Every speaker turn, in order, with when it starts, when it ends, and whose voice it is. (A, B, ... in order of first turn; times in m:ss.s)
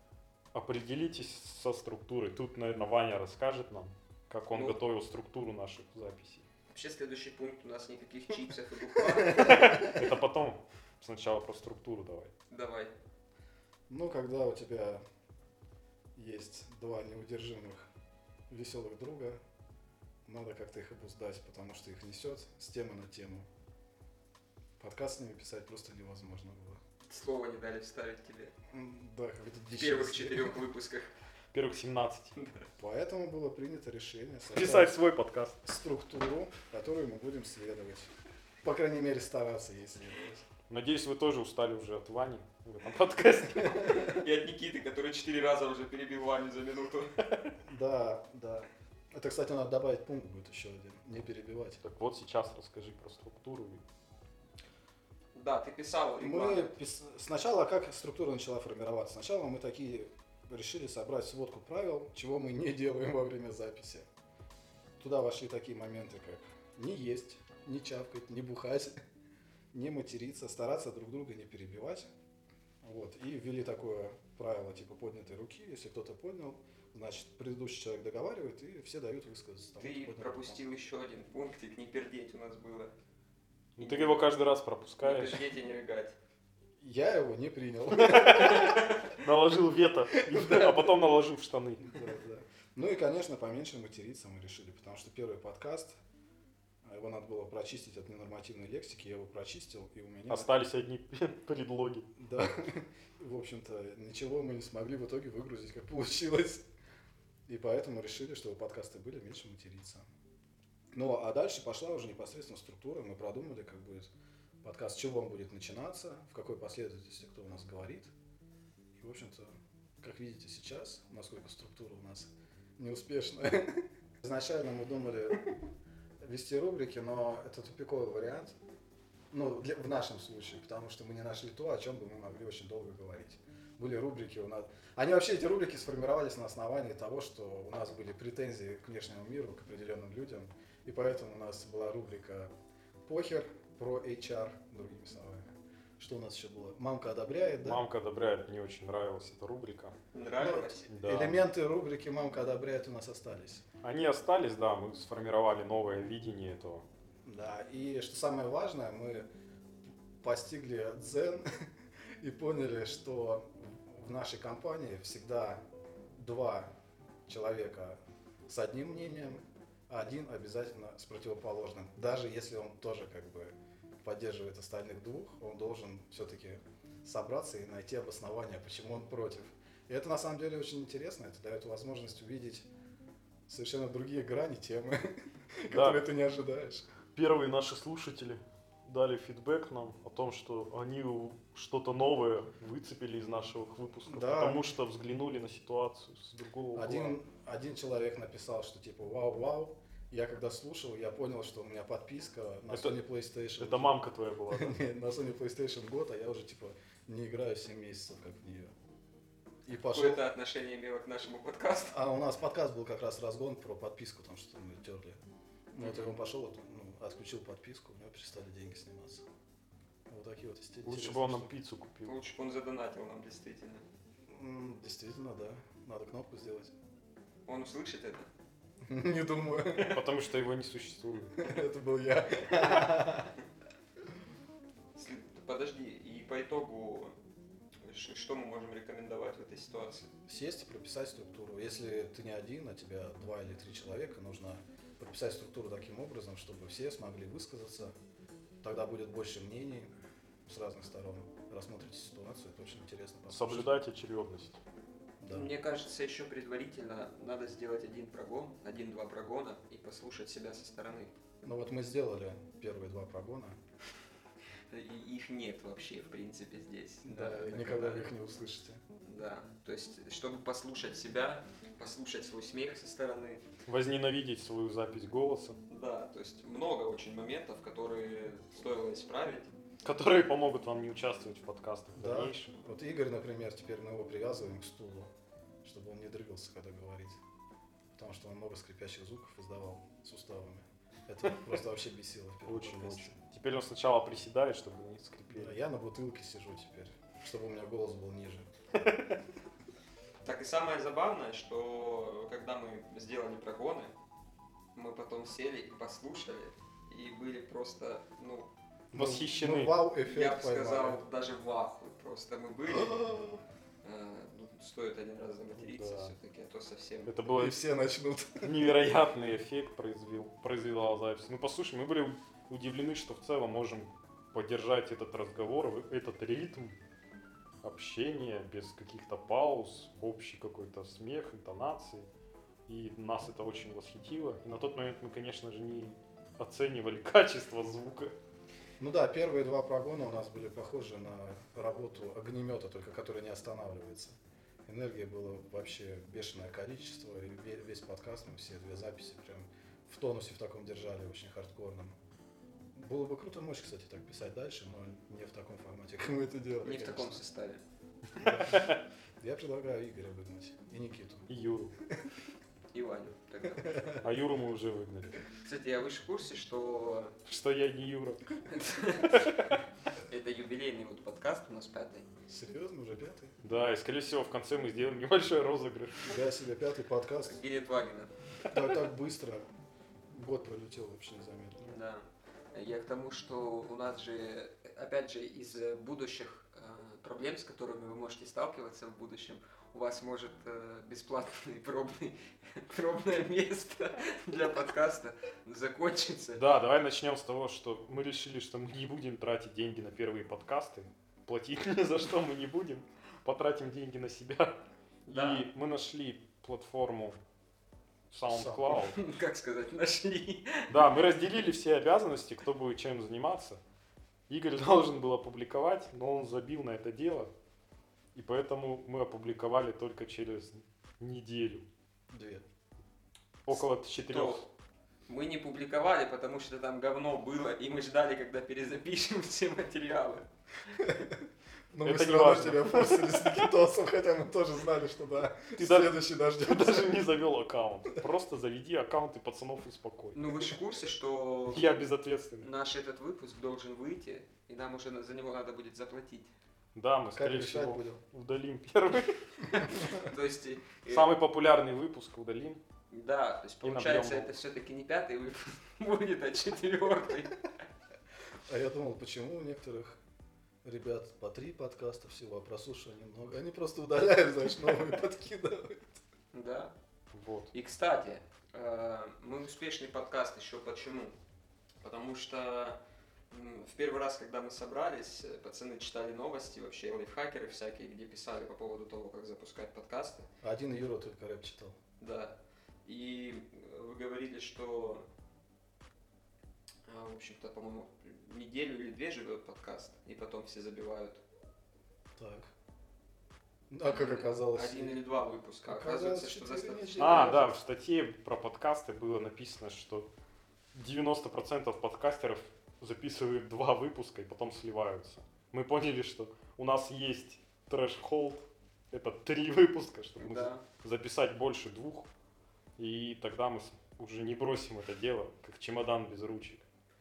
0:00.5-0:06.5 A
0:04.5-0:04.8 B
0:06.7-0:09.9 B
0:09.2-0:10.0 C
0:09.3-0:12.3 A
0:12.5-0:12.9 B
0:13.9-0:15.0 C
0:16.2-0:17.9 C
0:18.5-0:19.4 C
0:20.3-0:23.5 C
0:24.8-0:26.8 C
0:27.1-0:28.5 B
0:28.7-0:30.6 C
0:29.8-0:31.1 B
0:31.5-0:32.4 A
0:32.4-0:32.6 B
0:32.8-0:35.0 C
0:34.5-0:35.6 A
0:35.6-0:38.1 C
0:38.6-0:40.5 C
0:40.7-0:44.1 A
0:43.7-0:47.2 B
0:47.6-0:51.8 C
0:51.8-0:53.8 A
0:55.3-0:56.8 B
0:56.2-1:04.1 C
1:05.0-1:09.0 C
1:09.7-1:12.1 C
1:12.8-1:20.6 C
1:19.8-1:22.9 B
1:23.8-1:25.5 A
1:23.8-1:24.2 B
1:25.0-1:26.2 B
1:26.8-1:28.8 C
1:27.9-1:32.1 A
1:28.5-1:29.2 B
1:30.1-1:31.0 C
1:31.8-1:36.0 C
1:36.8-1:40.5 C
1:40.3-1:42.1 A
1:42.2-1:46.7 C
1:47.5-1:50.1 C
1:50.9-1:54.1 C
1:54.6-1:58.1 C
1:59.0-2:05.5 C
2:06.2-2:08.6 C
2:09.3-2:22.5 C
2:23.0-2:27.8 C
2:27.6-2:30.0 A
2:30.1-2:30.9 B
2:30.4-2:33.6 C
2:30.9-2:31.4 A
2:33.8-2:36.8 A
2:37.2-2:39.3 C
2:40.2-2:41.5 C
2:42.2-2:45.6 C
2:46.2-2:46.7 C
2:47.3-3:02.7 C
3:03.5-3:06.9 C
3:05.7-3:06.0 A
3:07.2-3:17.2 A
3:14.1-3:14.7 C
3:16.8-3:23.9 C
3:22.7-3:23.0 A
3:23.6-3:24.8 A
3:24.5-3:28.7 C
3:29.7-3:30.2 C
3:29.8-3:32.0 B
3:31.9-3:35.2 C
3:35.7-3:39.2 C
3:35.8-3:36.1 B
3:40.1-3:41.5 C
3:40.8-3:42.2 A
3:42.0-3:43.8 B
3:44.3-3:46.8 C
3:47.5-3:48.3 B
3:48.8-3:50.0 C
3:49.8-3:51.4 A
3:51.4-3:53.3 C
3:55.0-3:57.2 B
3:57.8-4:00.1 B
4:00.3-4:07.9 C
4:08.6-4:09.9 C
4:10.5-4:13.7 C
4:13.3-4:14.6 A
4:15.2-4:15.5 C
4:15.3-4:21.1 B
4:21.4-4:23.6 C
4:24.7-4:28.1 B
4:27.0-4:28.8 C
4:29.0-4:33.4 B
4:33.7-4:35.6 A
4:35.7-4:39.5 B
4:39.8-4:42.5 A
4:42.0-4:45.1 C
4:45.6-4:47.2 C
4:47.9-4:53.1 C
4:52.5-4:55.6 A
4:55.3-4:58.5 C
4:58.8-4:59.2 A
5:00.2-5:03.9 B
5:04.8-5:08.5 B
5:08.9-5:11.0 C
5:08.9-5:09.8 A
5:10.1-5:13.0 B
5:12.7-5:13.4 C
5:13.8-5:17.1 B
5:15.6-5:16.1 A
5:17.1-5:17.6 A
5:17.3-5:18.6 C
5:18.4-5:26.8 A
5:27.6-5:32.1 A
5:32.7-5:38.2 A
5:38.8-5:52.0 C
5:52.8-5:57.2 C
5:56.6-5:57.6 B
5:58.2-5:58.7 C
5:58.2-5:58.8 A
5:59.2-6:01.3 C
6:01.3-6:01.8 A
6:01.8-6:02.1 C
6:02.7-6:04.0 B
6:03.6-6:04.0 C
6:04.0-6:05.2 A
6:05.4-6:07.2 B
6:07.3-6:08.3 A
6:08.5-6:09.4 B
6:09.0-6:09.5 A
6:10.0-6:12.1 B
6:12.3-6:13.4 C
6:13.4-6:16.2 A
6:16.0-6:17.4 C
6:17.2-6:18.1 B
6:18.5-6:19.5 C
6:20.1-6:21.7 C
6:21.6-6:36.5 B
6:36.4-6:47.2 A
6:45.1-6:45.5 B
6:48.1-6:49.0 A
6:48.3-6:48.8 C
6:48.7-6:50.9 B
6:50.7-6:53.6 A
6:54.3-6:57.3 A
6:58.2-7:01.7 A
7:02.1-7:02.4 C
7:03.5-7:04.4 A
7:04.1-7:04.4 B
7:05.1-7:10.8 B
7:10.8-7:17.1 C
7:11.8-7:13.5 A
7:15.6-7:20.6 A
7:20.2-7:21.7 B
7:21.5-7:22.5 A
7:22.4-7:26.3 B
7:26.8-7:29.9 A
7:27.1-7:28.0 C
7:29.7-7:31.1 B
7:30.9-7:32.6 A
7:32.9-7:37.4 B
7:33.6-7:34.3 A
7:38.5-7:40.0 C
7:40.6-7:46.0 C
7:46.3-7:46.7 B
7:47.1-7:47.5 A
7:47.5-7:51.2 B
7:51.8-7:52.8 B
7:53.3-8:00.3 B
8:00.4-8:01.8 C
8:02.0-8:05.1 B
8:06.9-8:11.2 B
8:12.2-8:12.5 C
8:13.7-8:15.0 C
8:13.9-8:17.4 B
8:15.6-8:17.6 C
8:17.0-8:20.1 A
8:20.7-8:32.1 A
8:30.2-8:30.6 B
8:32.8-8:36.6 A